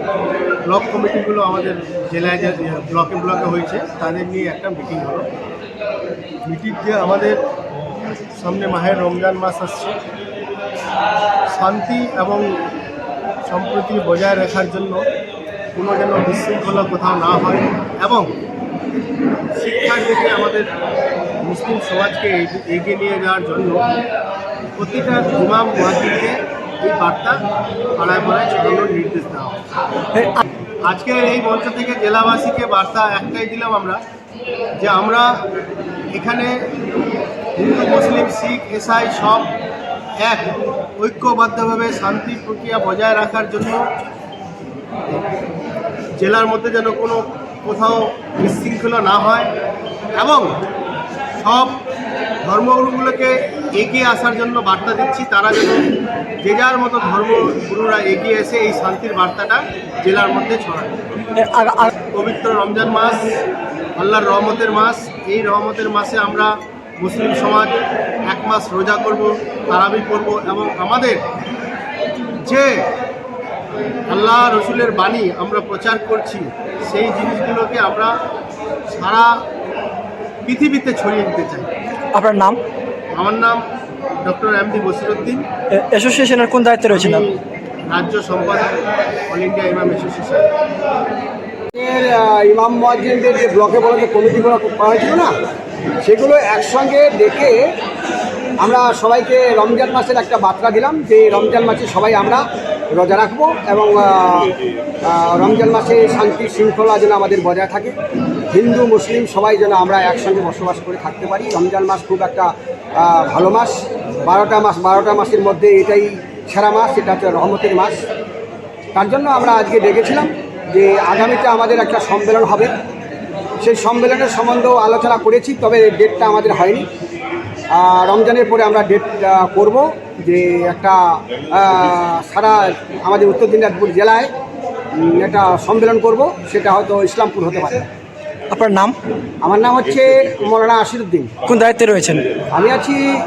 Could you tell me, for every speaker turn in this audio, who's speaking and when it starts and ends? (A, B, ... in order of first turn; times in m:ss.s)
0:00.6-0:05.3 A
0:06.4-0:07.4 A
0:08.3-0:10.0 A
0:11.5-0:12.6 A
0:13.4-0:15.0 A
0:15.7-0:18.3 A
0:19.5-0:20.7 A
0:21.4-0:23.8 A
0:24.8-0:27.4 A
0:28.0-0:29.6 A
0:30.1-0:30.4 B
0:30.8-0:34.0 A
0:34.8-0:35.3 A
0:36.1-0:36.6 A
0:37.6-0:39.5 A
0:40.2-0:43.9 A
0:46.2-0:49.5 A
0:50.2-0:50.6 A
0:51.4-0:51.8 A
0:52.4-0:55.9 A
0:56.4-1:01.0 A
1:01.4-1:01.9 B
1:02.1-1:03.3 A
1:04.0-1:07.8 A
1:08.3-1:11.2 A
1:12.4-1:12.7 A
1:14.1-1:18.1 A
1:18.9-1:19.3 A
1:20.4-1:21.7 A
1:22.1-1:22.6 B
1:23.2-1:23.6 A
1:24.2-1:25.4 A
1:25.7-1:27.2 B
1:26.9-1:28.7 A
1:29.3-1:30.4 A
1:31.7-1:35.3 C
1:36.0-1:37.6 C
1:38.6-1:44.5 C
1:45.1-1:47.9 C
1:48.5-1:53.7 C
1:54.2-1:58.0 C
1:58.9-2:02.7 C
2:03.6-2:06.9 C
2:07.7-2:11.0 C
2:11.5-2:14.3 C
2:15.0-2:17.9 C
2:18.5-2:19.0 B
2:19.4-2:21.3 C
2:21.4-2:22.3 B
2:22.5-2:23.0 C